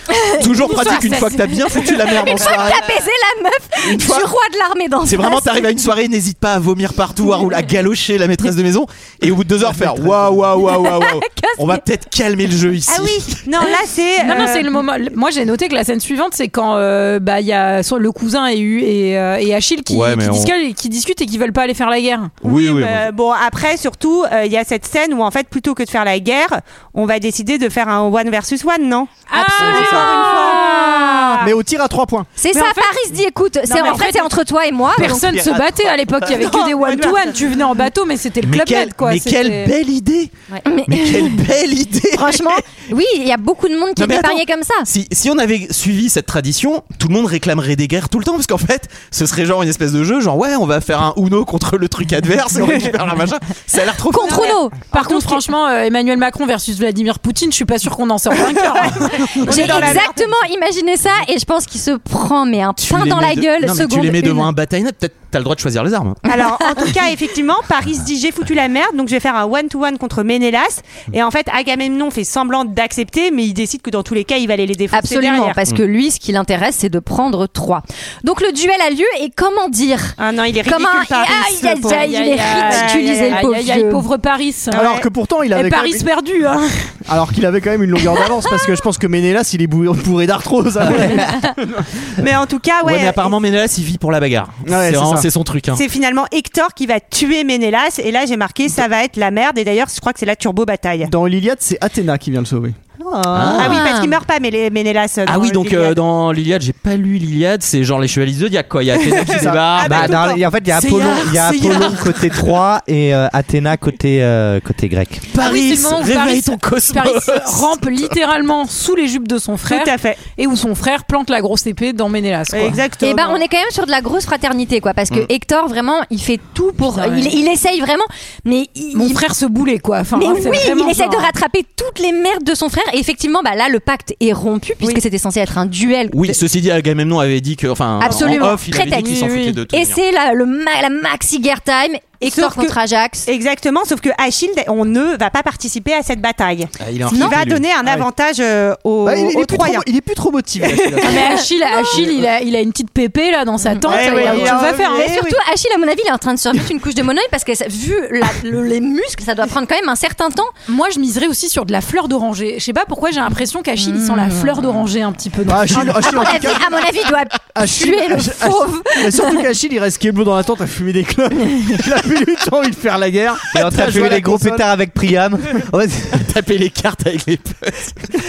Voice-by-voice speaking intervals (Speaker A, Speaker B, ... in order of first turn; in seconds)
Speaker A: 0.1-0.4, 2.1-5.8, 10.6-11.8, 29.3-31.4, 32.4-35.3, 40.6-41.4, 42.1-44.9, 54.1-55.0, 59.5-64.5, 66.3-66.9, 74.9-84.0, 103.5-104.2, 123.0-129.2, 130.2-136.4, 138.0-143.3, 147.1-147.4, 153.7-160.5, 163.8-164.6, 165.8-169.3
Speaker B: 0.3-2.9, 3.8-4.3, 5.0-13.4, 19.9-20.5, 22.4-23.1, 38.4-40.3, 40.9-42.6, 44.0-54.5, 62.8-66.2, 92.8-95.8, 103.3-103.8, 105.2-110.2, 110.8-111.8, 115.3-118.1, 136.1-140.0, 146.8-147.7, 176.2-178.1
Speaker C: 0.5-2.2, 14.2-22.4, 29.3-31.4, 33.7-34.4, 34.9-39.7, 54.9-60.0, 81.9-84.8, 85.5-86.9, 115.4-122.8, 126.8-127.4, 128.9-131.3, 138.1-138.5, 151.0-155.1, 160.7-166.2
Speaker D: 12.9-14.7, 22.4-31.5, 36.3-37.4, 54.2-55.4, 58.5-60.3, 66.2-75.6, 80.2-83.4, 84.7-85.1, 92.2-93.4, 95.7-101.1, 103.5-106.0, 109.0-110.4, 119.7-120.2, 122.5-123.4, 142.2-149.9, 150.6-151.3, 153.9-155.4
Speaker E: 31.4-32.3, 84.7-86.1, 87.1-91.8, 94.7-95.3, 101.0-103.6, 109.3-109.8, 149.0-151.3, 154.0-154.5, 165.5-166.7, 167.5-174.7
Speaker F: 35.0-36.2, 109.8-115.2, 173.5-176.3